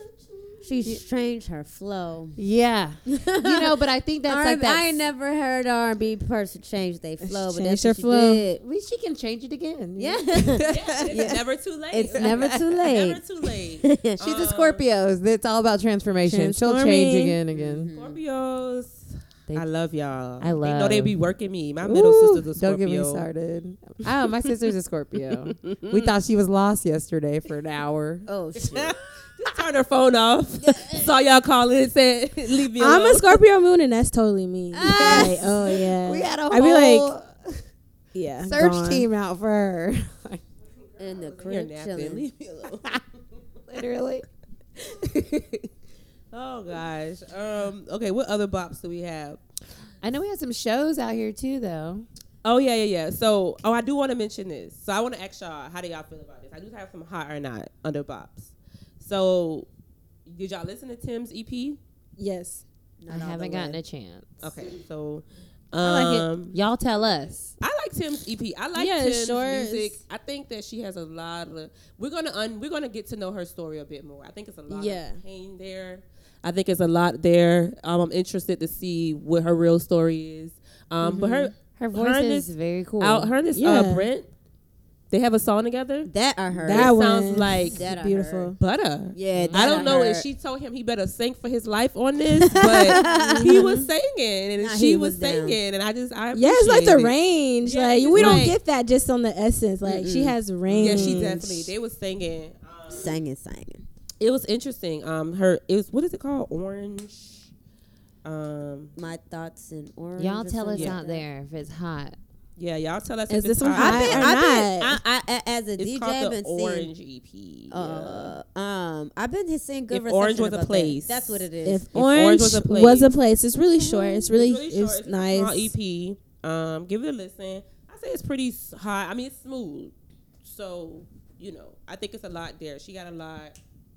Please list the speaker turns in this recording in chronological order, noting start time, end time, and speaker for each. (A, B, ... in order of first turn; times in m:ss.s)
0:00.6-0:02.4 A
0:02.4-0:05.0 B
0:03.2-0:08.6 A
0:07.3-0:08.4 C
0:08.6-0:10.7 B
0:10.0-0:13.2 A
0:10.6-0:14.8 D
0:12.2-0:12.6 B
0:13.8-0:14.2 A
0:14.2-0:17.9 B
0:16.2-0:17.4 C
0:17.5-0:23.3 D
0:17.6-0:18.2 A
0:20.4-0:21.2 B
0:21.8-0:28.3 B
0:25.6-0:26.1 D
0:28.3-0:29.0 A
0:28.6-0:33.4 D
0:30.6-0:31.1 A
0:32.8-0:37.1 C
0:34.7-0:35.6 A
0:34.8-0:37.6 B
0:38.1-0:39.1 C
0:38.4-0:40.4 B
0:41.0-0:43.0 D
0:41.0-0:42.2 A
0:43.7-0:44.2 B
0:44.9-0:45.7 D
0:46.3-0:49.4 D
0:50.0-0:52.1 B
0:52.4-0:59.7 D
1:00.3-1:01.8 D
1:02.2-1:02.6 C
1:03.0-1:03.8 A
1:03.1-1:04.3 B
1:04.4-1:06.6 D
1:05.8-1:07.5 B
1:07.6-1:22.5 D
1:08.8-1:10.0 C
1:14.7-1:15.2 C
1:21.0-1:21.5 A
1:21.8-1:23.3 B
1:23.0-1:24.3 D
1:23.6-1:24.1 C
1:25.1-1:27.8 D
1:26.1-1:26.9 A
1:26.7-1:28.6 C
1:27.7-1:28.6 A
1:28.6-1:38.6 D
1:29.1-1:30.3 A
1:29.4-1:29.9 B
1:32.5-1:33.8 C
1:32.8-1:33.6 A
1:34.6-1:35.6 A
1:36.4-1:41.7 C
1:38.2-1:38.5 A
1:39.8-1:41.2 A
1:40.8-1:43.1 D
1:42.9-1:43.8 A
1:44.2-1:47.5 D
1:48.2-1:48.9 D
1:49.0-1:51.2 A
1:50.2-1:52.2 B
1:52.6-1:54.3 D
1:53.3-1:55.0 C
1:53.8-1:56.9 A
1:55.8-1:58.3 D
1:57.7-2:01.9 A
1:59.9-2:03.1 D
2:01.6-2:05.7 C
2:03.8-2:04.2 A
2:04.1-2:09.9 D
2:10.4-2:13.6 D